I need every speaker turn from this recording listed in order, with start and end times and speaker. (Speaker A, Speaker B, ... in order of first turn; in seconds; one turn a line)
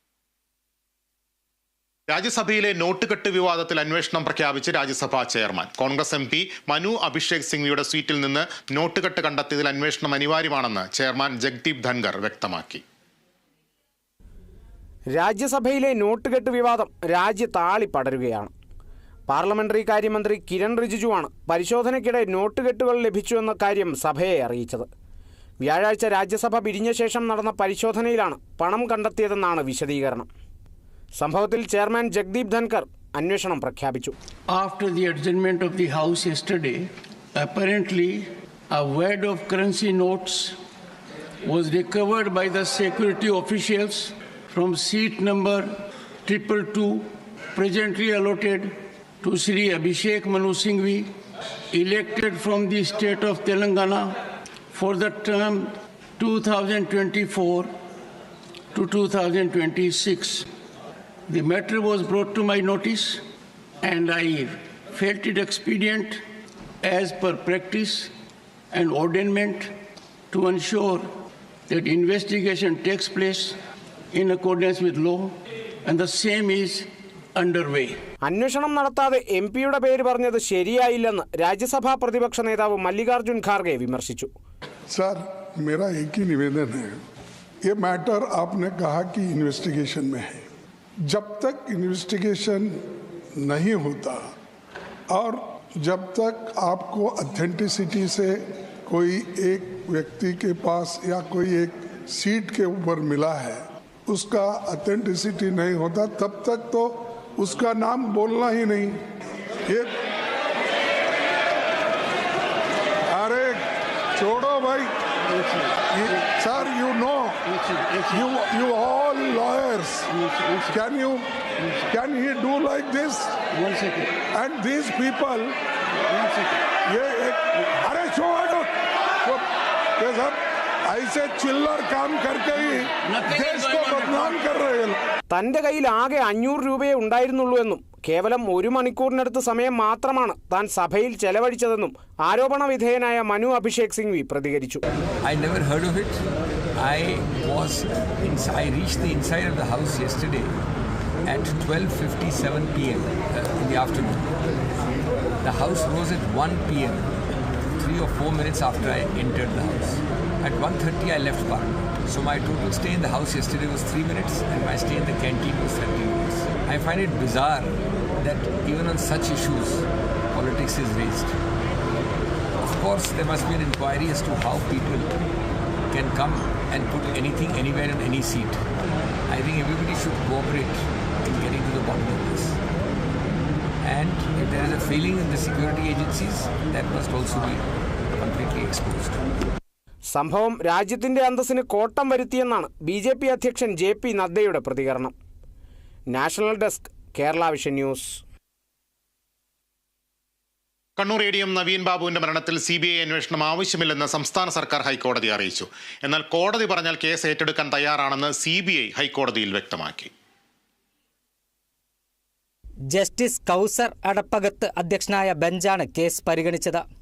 Speaker A: 2.1-12.8
Speaker B: 15.1-18.5
Speaker B: 19.3-24.9
Speaker B: 25.6-30.3
Speaker B: 31.2-34.1
Speaker C: 34.5-40.6
Speaker C: 41.4-51.1
Speaker C: 51.7-54.2
Speaker C: 54.7-57.7
Speaker C: 58.7-60.5
Speaker C: 61.3-63.2
Speaker C: 63.8-66.2
Speaker C: 66.8-68.1
Speaker C: 68.7-69.7
Speaker C: 70.3-71.1
Speaker C: 71.7-73.6
Speaker C: 74.1-75.3
Speaker C: 75.9-78.0
Speaker B: 78.2-84.3
Speaker D: 84.9-87.0
Speaker D: 87.7-90.4
Speaker D: 91.0-92.8
Speaker D: 93.4-94.3
Speaker D: 95.1-109.0
Speaker D: 109.7-110.0
Speaker D: 113.1-115.0
Speaker C: 115.3-115.9
Speaker D: 115.9-117.4
Speaker C: 117.5-118.2
Speaker D: 118.1-120.1
Speaker C: 120.1-120.7
Speaker D: 120.7-121.2
Speaker D: 121.9-123.4
Speaker C: 123.5-124.2
Speaker D: 124.3-125.6
Speaker C: 125.9-126.7
Speaker D: 126.9-129.5
Speaker D: 130.0-135.0
Speaker C: 133.0-134.4
Speaker B: 135.3-144.8
Speaker E: 145.2-146.2
Speaker E: 146.8-150.5
Speaker E: 151.2-154.3
Speaker E: 155.4-157.1
Speaker E: 157.8-171.4
Speaker E: 172.6-175.1
Speaker E: 175.9-178.6
Speaker E: 179.3-182.6
Speaker E: 183.8-187.7
Speaker E: 188.2-189.2
Speaker B: 190.1-195.1
Speaker B: 196.1-198.2
Speaker A: 201.0-210.1
Speaker F: 212.9-216.9